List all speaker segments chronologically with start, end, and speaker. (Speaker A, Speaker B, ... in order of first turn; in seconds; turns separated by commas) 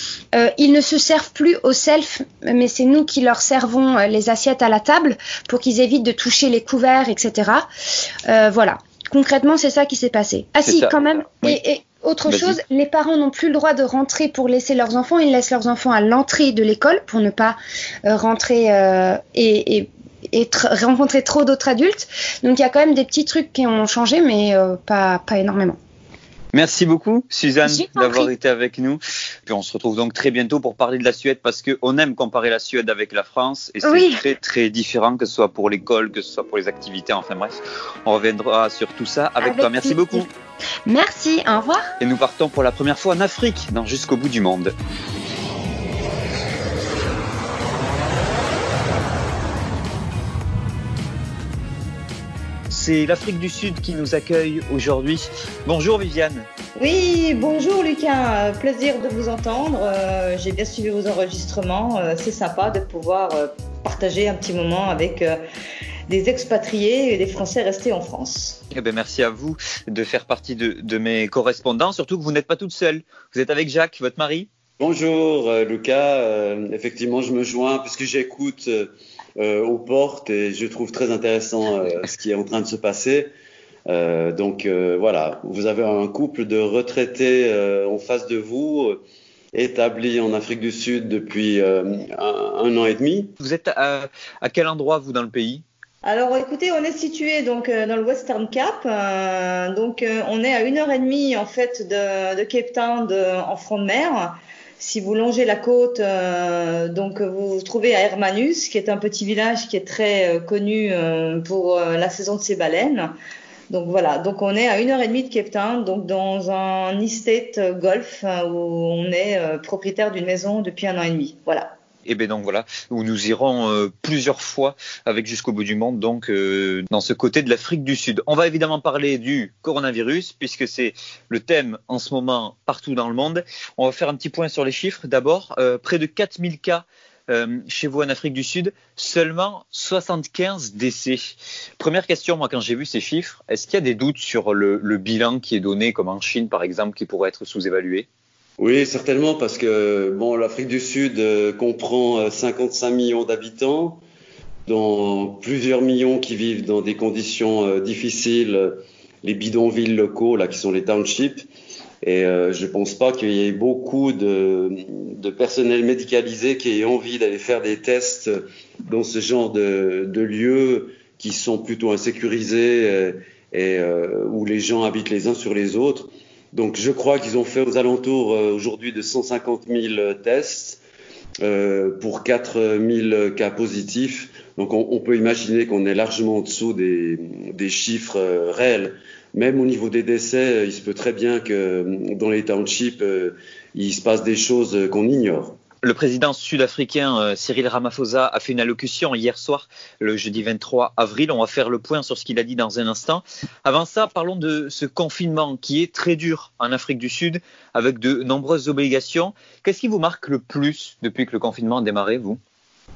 Speaker A: 0.3-7.7, Speaker A: 8.3-25.8, Speaker B: 10.6-11.6, Speaker B: 12.3-12.6, Speaker B: 26.5-40.3, Speaker A: 27.6-28.3, Speaker A: 33.8-34.2, Speaker A: 39.4-40.3, Speaker A: 40.9-41.9, Speaker B: 42.0-44.7, Speaker B: 52.7-56.5, Speaker C: 56.8-65.4, Speaker C: 66.1-68.6, Speaker B: 68.7-74.5, Speaker D: 74.8-83.3, Speaker D: 83.9-89.0, Speaker D: 89.5-93.3, Speaker B: 93.4-95.6, Speaker C: 96.0-113.1, Speaker C: 113.7-121.7, Speaker B: 122.1-148.1, Speaker D: 148.6-154.0, Speaker D: 154.7-161.4, Speaker D: 162.0-180.8, Speaker D: 181.4-195.6, Speaker B: 195.8-212.4